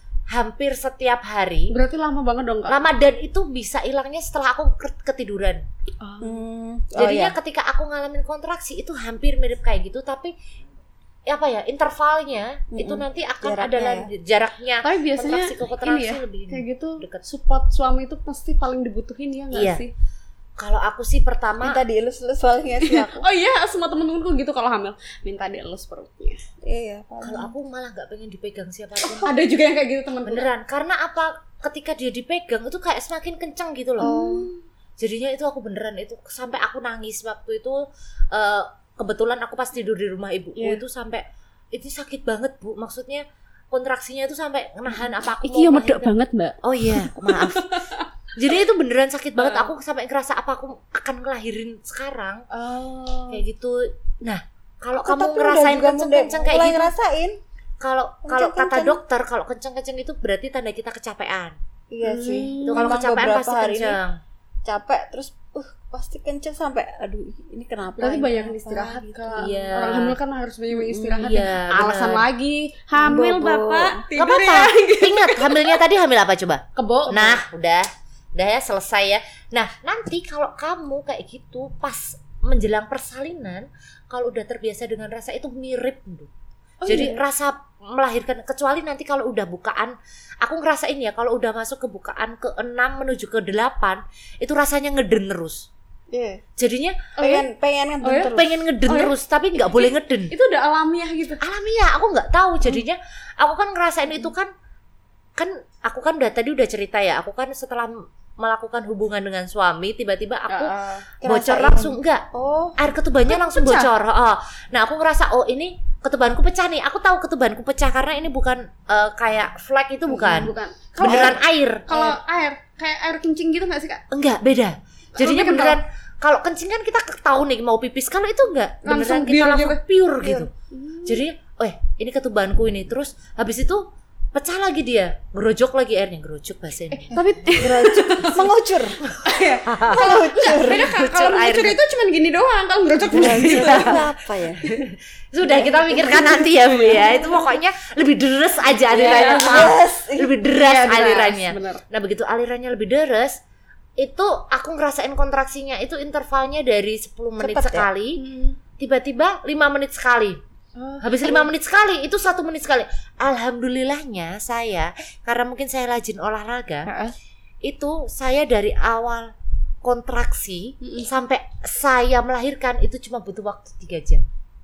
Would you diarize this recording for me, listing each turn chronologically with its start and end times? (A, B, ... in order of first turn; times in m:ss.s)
0:00.3-0:01.7 A
0:01.7-0:02.9 B
0:02.7-0:05.6 A
0:06.0-0:06.4 B
0:06.2-0:07.4 C
0:07.0-0:10.3 A
0:11.3-0:17.2 A
0:12.7-0:14.1 C
0:14.8-0:19.9 B
0:19.5-0:19.8 A
0:20.6-0:21.8 A
0:21.6-0:23.3 C
0:22.8-0:26.4 B
0:26.6-0:27.5 C
0:27.2-0:29.4 A
0:29.0-0:30.5 B
0:30.2-0:34.1 A
0:34.0-0:34.6 B
0:34.0-0:34.5 C
0:35.0-0:52.4 A
0:40.6-0:40.8 B
0:45.0-0:48.1 B
0:49.4-0:49.7 B
0:52.5-0:53.4 B
0:53.3-0:56.9 A
0:55.0-0:57.4 C
0:57.8-1:01.6 A
0:58.2-0:59.0 C
1:01.9-1:04.0 C
1:02.0-1:02.8 B
1:02.6-1:04.2 A
1:04.6-1:09.5 C
1:08.0-1:15.8 B
1:09.4-1:10.2 A
1:10.7-1:11.2 C
1:11.2-1:12.3 A
1:13.0-1:14.0 C
1:14.1-1:26.3 A
1:16.8-1:17.4 B
1:26.8-1:27.2 B
1:26.9-1:35.7 A
1:36.1-1:36.4 C
1:36.6-1:37.1 A
1:37.2-1:37.5 B
1:37.2-1:38.6 C
1:38.0-1:41.4 B
1:38.3-1:40.3 A
1:41.4-1:44.5 A
1:45.4-1:52.3 A
1:50.5-1:51.1 B
1:51.2-1:52.8 C
1:52.8-2:02.2 A
1:53.3-1:53.9 B
2:00.1-2:04.0 B
2:01.0-2:01.4 C
2:04.1-2:10.5 A
2:05.2-2:05.8 B
2:08.8-2:09.8 B
2:10.2-2:10.5 C
2:10.7-2:11.2 B
2:11.1-2:17.2 A
2:16.9-2:18.6 B
2:17.6-2:19.0 C
2:19.1-2:21.8 A
2:19.2-2:24.0 B
2:19.9-2:20.9 C
2:23.1-2:24.0 A
2:23.1-2:24.6 C
2:24.8-2:33.4 A
2:25.4-2:27.5 B
2:28.9-2:29.8 B
2:29.0-2:30.3 C
2:30.5-2:31.8 B
2:34.0-2:38.2 A
2:37.4-2:37.9 C
2:38.2-2:38.6 B
2:38.8-2:40.4 A
2:40.8-2:41.5 B
2:41.0-2:46.9 A
2:46.9-2:47.1 B
2:47.6-2:49.3 A
2:49.8-2:54.3 A
2:50.8-2:51.1 B